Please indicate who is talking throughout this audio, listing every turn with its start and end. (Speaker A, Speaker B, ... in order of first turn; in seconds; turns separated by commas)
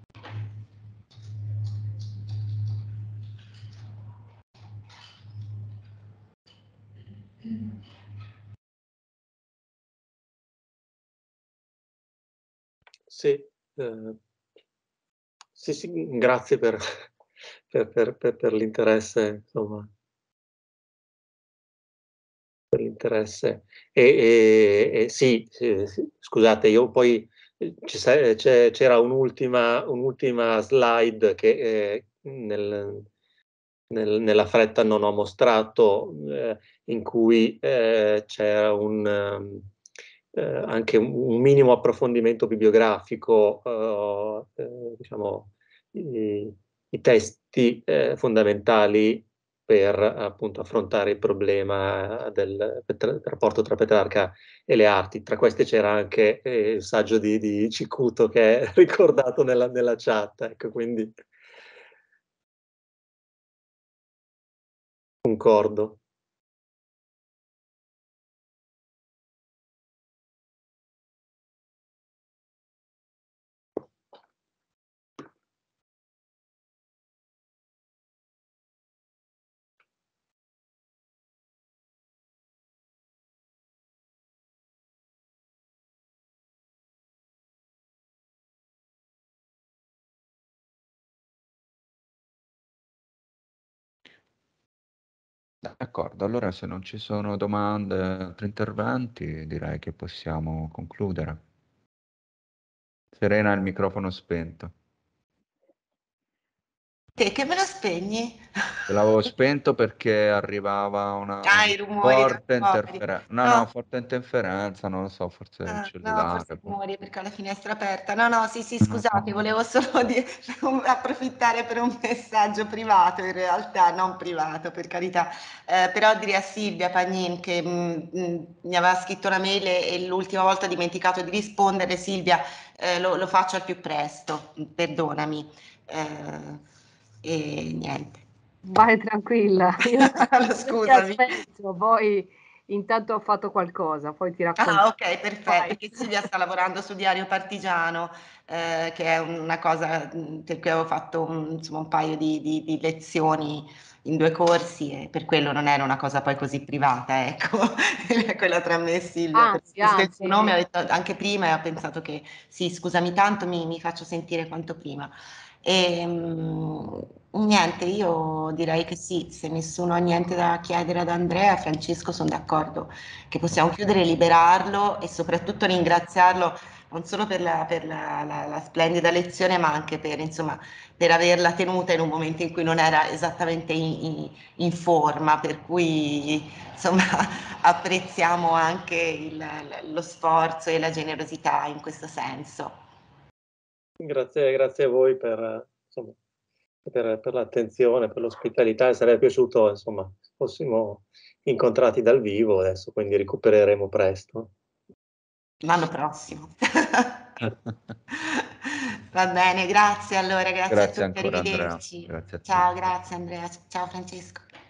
Speaker A: 13.1-14.2, Speaker A: 15.6-16.8, Speaker A: 17.7-19.9, Speaker A: 22.7-33.1, Speaker A: 33.9-39.7, Speaker A: 40.3-61.1, Speaker A: 65.2-66.0, Speaker B: 95.6-101.4, Speaker B: 103.1-104.7, Speaker C: 107.2-108.9, Speaker B: 108.9-116.7, Speaker C: 111.4-113.7, Speaker C: 115.7-136.6, Speaker B: 118.8-119.1, Speaker C: 137.2-138.2, Speaker D: 138.7-144.8, Speaker C: 139.9-141.4, Speaker C: 144.6-165.1, Speaker D: 145.4-146.1, Speaker D: 159.3-160.6, Speaker C: 165.6-192.8, Speaker A: 194.0-196.2, Speaker A: 196.8-204.5, Speaker C: 205.6-207.4, Speaker C: 208.1-214.5, Speaker B: 210.7-212.9